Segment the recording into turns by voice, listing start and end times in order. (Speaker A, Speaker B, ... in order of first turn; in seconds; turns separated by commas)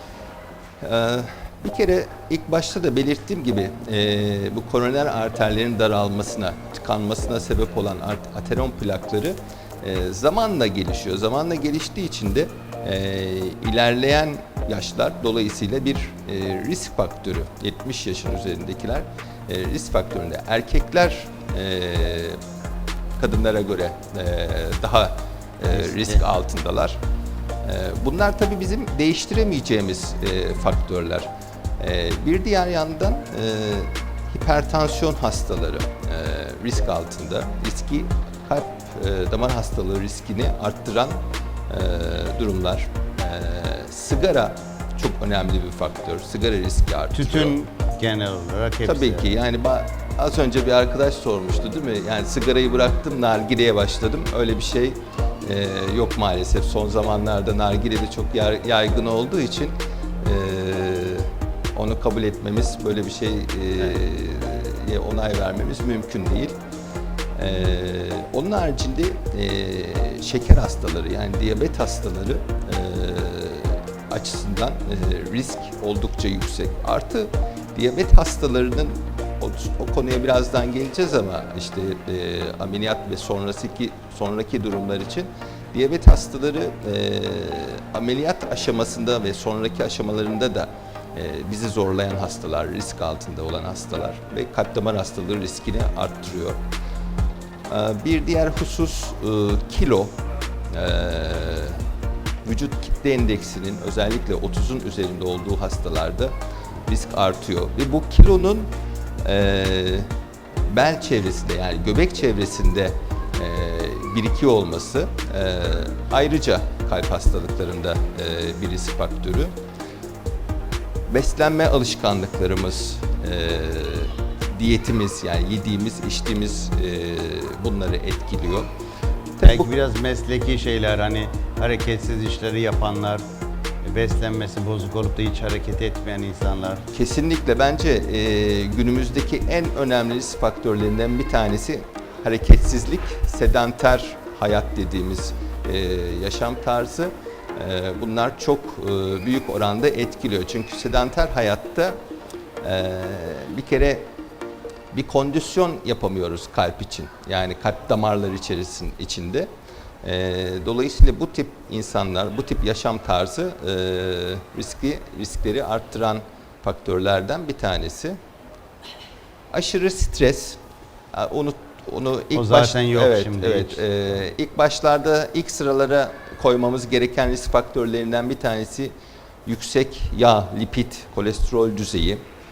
Speaker A: 0.8-22.4, Speaker A: 23.2-27.0, Speaker B: 25.7-26.2, Speaker A: 27.6-31.3, Speaker A: 31.8-47.5, Speaker B: 47.1-49.3, Speaker A: 48.9-66.5, Speaker A: 67.3-96.6, Speaker A: 97.7-100.1, Speaker A: 100.7-101.8, Speaker A: 102.4-106.3, Speaker A: 106.8-108.7, Speaker A: 109.2-110.1, Speaker A: 110.7-119.5, Speaker A: 121.1-128.7, Speaker A: 129.4-129.7, Speaker B: 129.4-133.2, Speaker B: 133.8-136.8, Speaker A: 136.9-151.9, Speaker A: 152.6-154.1, Speaker A: 154.9-159.5, Speaker A: 160.0-168.2, Speaker A: 169.5-170.6, Speaker A: 171.1-178.9, Speaker B: 172.3-173.8, Speaker A: 179.4-182.2